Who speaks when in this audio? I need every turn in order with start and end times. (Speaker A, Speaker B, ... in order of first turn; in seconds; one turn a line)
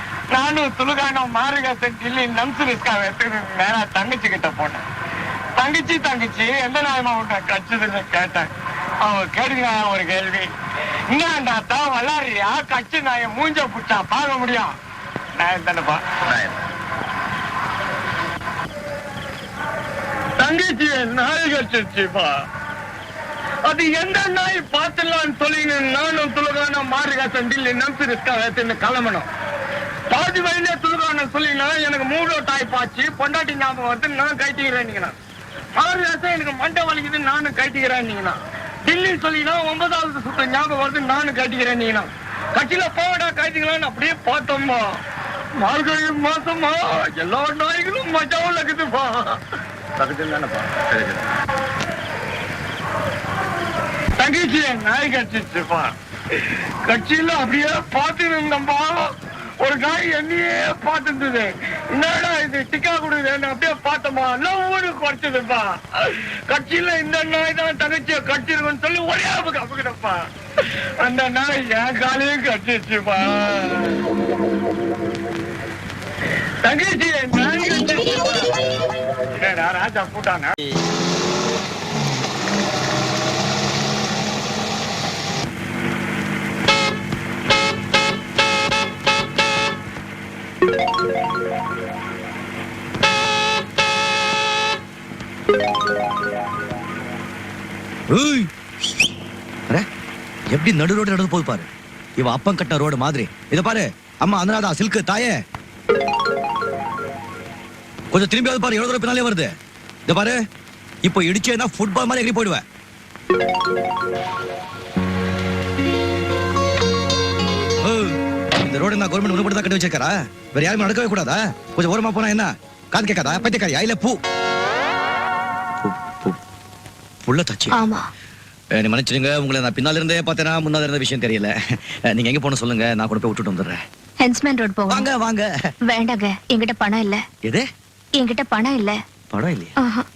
Speaker A: 0.3-4.8
Speaker A: 5.6-8.5
Speaker A: 9.0-10.5
Speaker A: 11.1-14.7
Speaker A: 15.4-16.0
Speaker A: 20.4-22.3
Speaker A: 23.7-29.3
Speaker A: 30.1-35.1
Speaker A: 35.8-45.0
Speaker A: 45.6-49.4
Speaker A: 54.2-55.9
Speaker A: 56.9-59.1
Speaker A: 59.6-65.8
Speaker A: 66.5-70.2
Speaker A: 71.0-74.0
Speaker A: 76.6-78.4
Speaker A: 79.4-80.6
Speaker B: 98.1-98.5
Speaker B: 100.5-105.4
Speaker B: 108.1-109.5
Speaker B: 110.1-110.4
Speaker B: 111.0-112.6
Speaker B: 117.8-124.2
Speaker B: 125.8-126.4
Speaker B: 127.2-127.8
Speaker C: 127.7-128.1
Speaker B: 128.7-133.8
Speaker C: 134.2-135.1
Speaker B: 134.9-135.5
Speaker C: 135.9-137.2
Speaker C: 138.2-139.0
Speaker B: 139.3-139.8
Speaker C: 139.8-140.1